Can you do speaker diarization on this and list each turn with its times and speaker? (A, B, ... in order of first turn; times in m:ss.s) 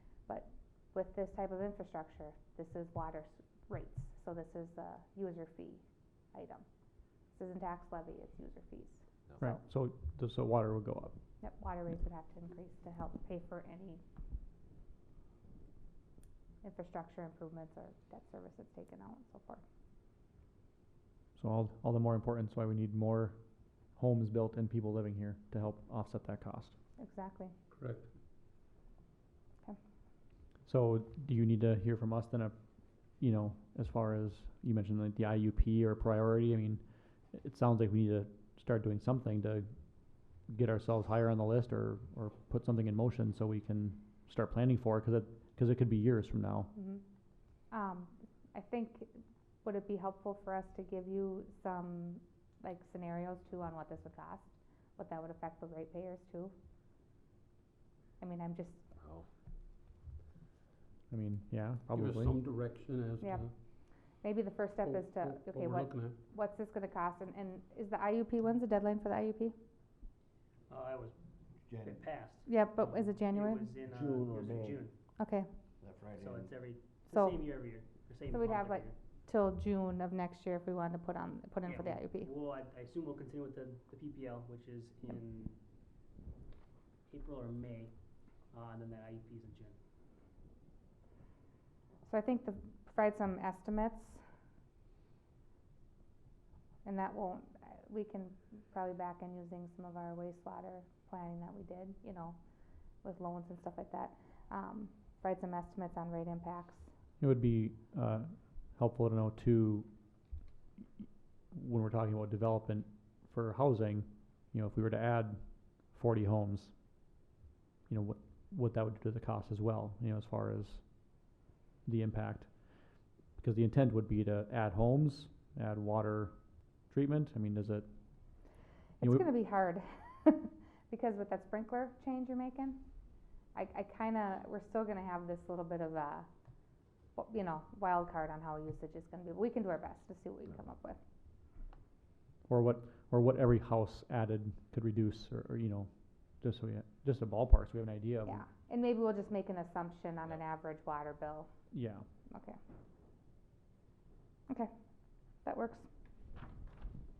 0:00.3-0:05.8 A
0:06.3-0:06.6 A
0:07.3-0:09.6 A
0:09.4-0:11.1 B
0:11.4-0:14.0 A
0:16.6-0:19.6 A
0:21.4-0:23.4 B
0:23.9-0:26.7 B
0:27.0-0:27.5 A
0:27.7-0:28.1 C
0:30.6-0:32.5 B
0:33.2-0:46.7 B
0:46.7-0:47.0 A
0:47.7-0:49.1 A
0:49.6-0:56.5 A
0:58.2-0:58.8 A
1:01.1-1:02.4 B
1:01.9-1:03.5 C
1:03.2-1:09.5 A
1:04.8-1:06.2 C
1:10.7-1:11.2 D
1:11.7-1:12.0 E
1:11.7-1:15.0 D
1:12.5-1:13.7 A
1:13.9-1:14.8 E
1:15.2-1:15.5 A
1:15.8-1:16.5 E
1:16.2-1:19.0 D
1:17.1-1:17.5 A
1:18.3-1:22.3 A
1:21.6-1:25.6 D
1:27.1-1:27.9 D
1:28.5-1:29.8 D
1:32.0-1:34.2 A
1:36.8-1:42.4 A
1:43.0-1:46.9 A
1:47.2-1:49.9 B
1:51.0-1:56.8 B
1:57.9-2:01.3 B
2:01.8-2:07.8 B
2:09.0-2:09.3 B
2:09.0-2:12.8 A
2:13.5-2:16.3 A
2:17.2-2:21.0 A
2:22.5-2:28.4 B
2:28.2-2:31.5 A
2:31.7-2:32.0 B
2:32.3-2:32.6 A
2:35.4-2:35.9 A